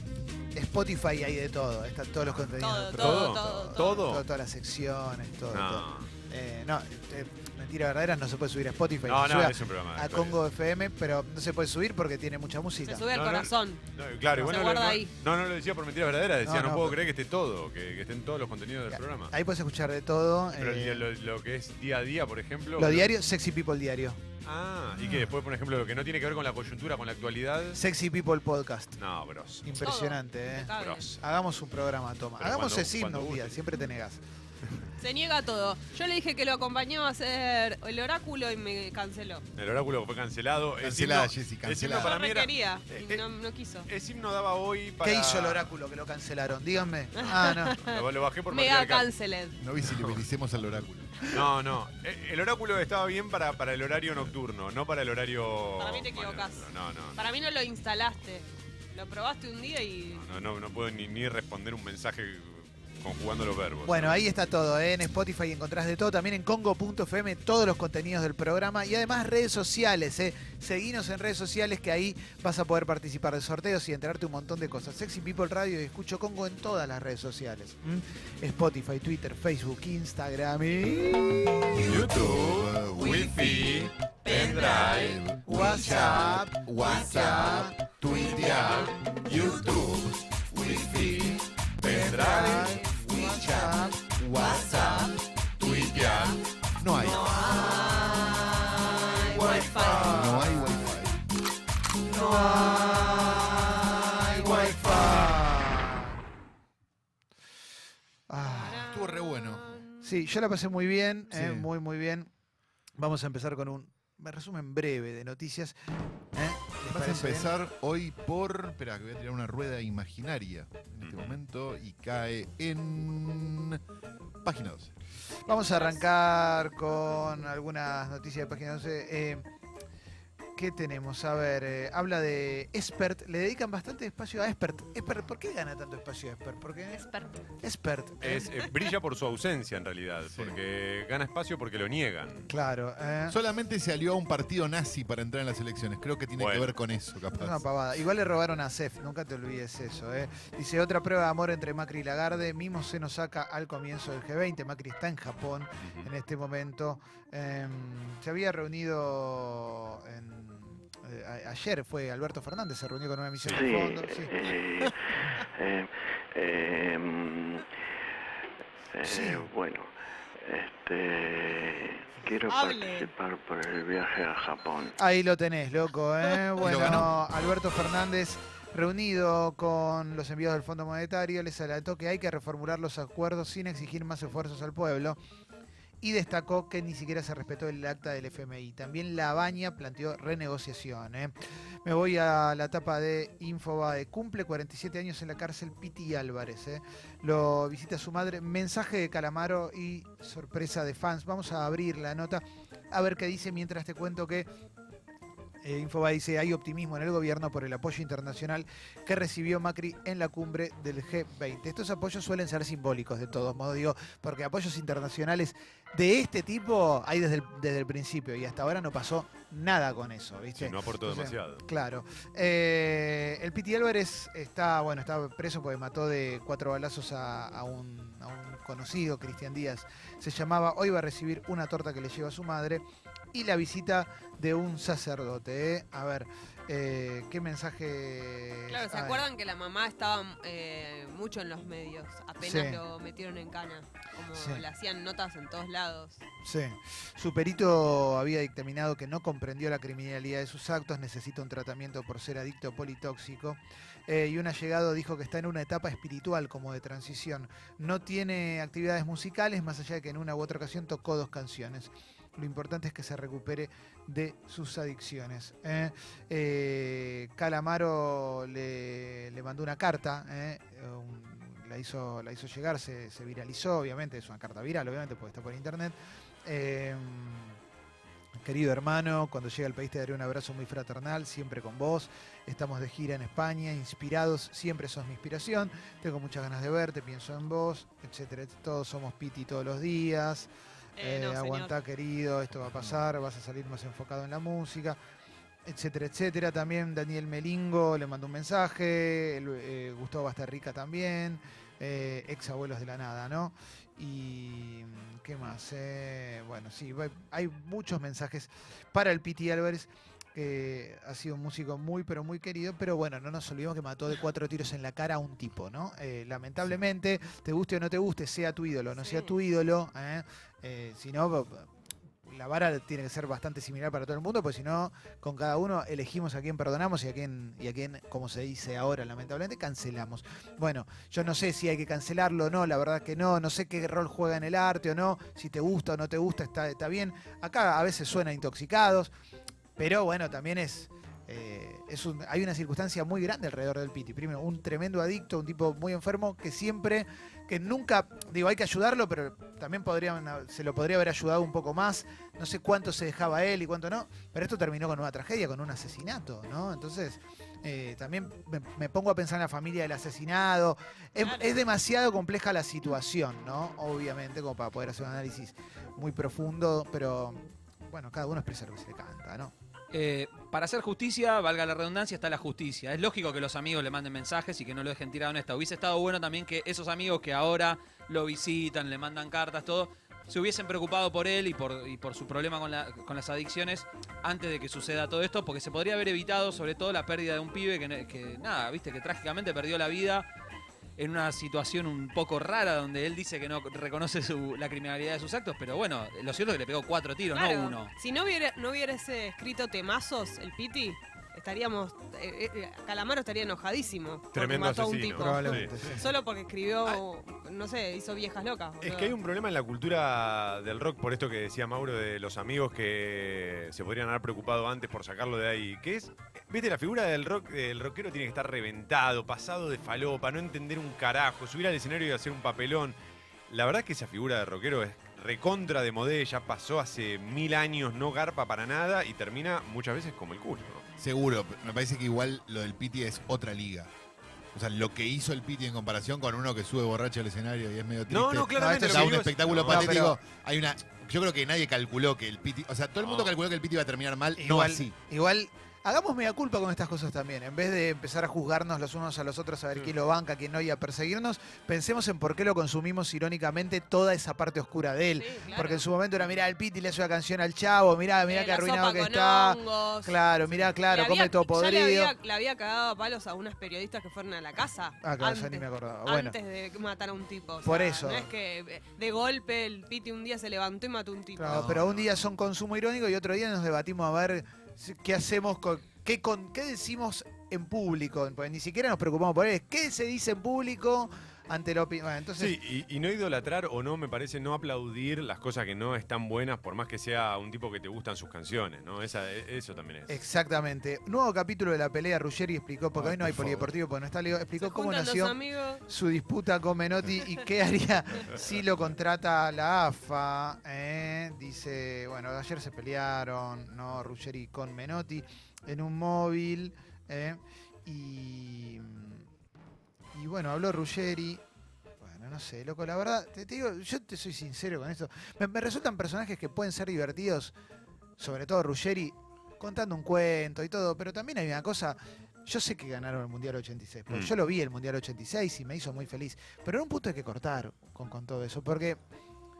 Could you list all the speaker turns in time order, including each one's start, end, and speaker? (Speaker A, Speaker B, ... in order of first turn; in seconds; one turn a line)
Speaker A: 0.5-13.1
Speaker B: 2.6-4.0
Speaker C: 3.0-4.2
Speaker C: 5.5-6.1
Speaker C: 9.0-10.4
Speaker B: 12.8-13.8
Speaker C: 13.1-19.3
Speaker B: 14.4-15.1
Speaker A: 16.4-17.0
Speaker A: 18.9-21.0
Speaker C: 20.5-23.1
Speaker A: 22.8-24.2
Speaker C: 24.4-27.8
Speaker A: 27.7-28.9
Speaker C: 29.0-29.7
Speaker A: 29.6-34.2
Speaker B: 29.8-31.0
Speaker C: 30.8-31.2
Speaker C: 32.4-33.6
Speaker B: 35.0-39.4
Speaker C: 39.5-43.2
Speaker D: 40.8-42.1
Speaker B: 42.0-43.9
Speaker C: 43.9-45.7
Speaker A: 45.0-47.8
Speaker B: 47.1-49.6
Speaker C: 47.2-49.1
Speaker D: 49.6-51.3
Speaker C: 49.8-50.2
Speaker C: 51.3-57.2
Speaker B: 55.8-60.2
Speaker C: 60.2-64.2
Speaker A: 63.8-81.8
Speaker D: 81.7-95.2
Speaker C: 81.8-85.2
Speaker B: 84.2-85.1
Speaker A: 85.4-87.7
Speaker B: 88.2-88.8
Speaker C: 88.3-90.0
Speaker C: 90.7-92.8
Speaker A: 91.8-93.9
Speaker B: 92.9-93.7
Speaker B: 94.3-95.1
Speaker C: 95.6-96.4
Speaker B: 95.7-96.3
Speaker D: 96.8-97.8
Speaker B: 97.0-100.5
Speaker A: 97.4-101.0
Speaker D: 99.5-101.2
Speaker A: 102.0-106.2
Speaker B: 102.1-105.1
Speaker A: 108.3-108.9
Speaker B: 108.4-110.3
Speaker D: 108.8-109.7
Speaker A: 110.0-112.3
Speaker D: 111.3-111.7
Speaker A: 113.0-115.7
Speaker A: 116.3-117.5
Speaker D: 116.9-123.8
Speaker C: 121.0-121.4
Speaker D: 124.4-124.9
Speaker B: 125.5-126.1
Speaker A: 125.5-129.4
Speaker A: 130.6-137.1
Speaker B: 136.9-137.3
Speaker A: 137.6-138.5
Speaker C: 138.2-142.5
Speaker D: 140.3-140.6
Speaker A: 142.5-143.4
Speaker D: 143.3-147.6
Speaker C: 146.4-146.8
Speaker A: 147.3-164.3
Speaker C: 155.8-156.1
Speaker C: 163.3-163.7
Speaker E: 163.5-167.7
Speaker E: 168.9-174.9
Speaker A: 169.0-169.5
Speaker B: 172.5-173.1
Speaker A: 175.0-185.2
Speaker D: 176.6-177.2
Speaker A: 186.0-204.5
Speaker A: 205.6-239.2
Speaker C: 220.6-221.6
Speaker B: 238.7-246.2
Speaker A: 242.4-242.8
Speaker A: 244.3-244.6
Speaker A: 246.4-277.6
Speaker A: 278.4-295.0
Speaker B: 291.0-291.7
Speaker D: 292.6-293.0
Speaker A: 295.6-321.7
Speaker B: 318.9-319.4
Speaker A: 322.2-339.1
Speaker A: 339.8-369.5
Speaker B: 361.2-361.6
Speaker F: 369.9-390.3
Speaker F: 391.0-397.9
Speaker B: 397.3-409.1
Speaker C: 404.3-406.0
Speaker A: 405.1-406.1
Speaker C: 408.8-422.9
Speaker C: 423.5-430.8
Speaker D: 431.0-433.9
Speaker D: 434.5-444.9
Speaker C: 438.1-440.1
Speaker A: 438.6-440.2
Speaker C: 443.0-443.3
Speaker A: 444.4-462.1
Speaker B: 455.1-455.9
Speaker B: 458.3-460.2
Speaker B: 460.8-471.8
Speaker A: 465.0-466.4
Speaker A: 467.6-468.3
Speaker A: 471.4-482.6
Speaker C: 471.5-472.1
Speaker C: 482.4-490.2
Speaker A: 490.1-509.2
Speaker D: 492.9-493.7
Speaker B: 494.6-495.8
Speaker A: 510.1-511.4
Speaker A: 512.0-517.5
Speaker A: 518.2-529.0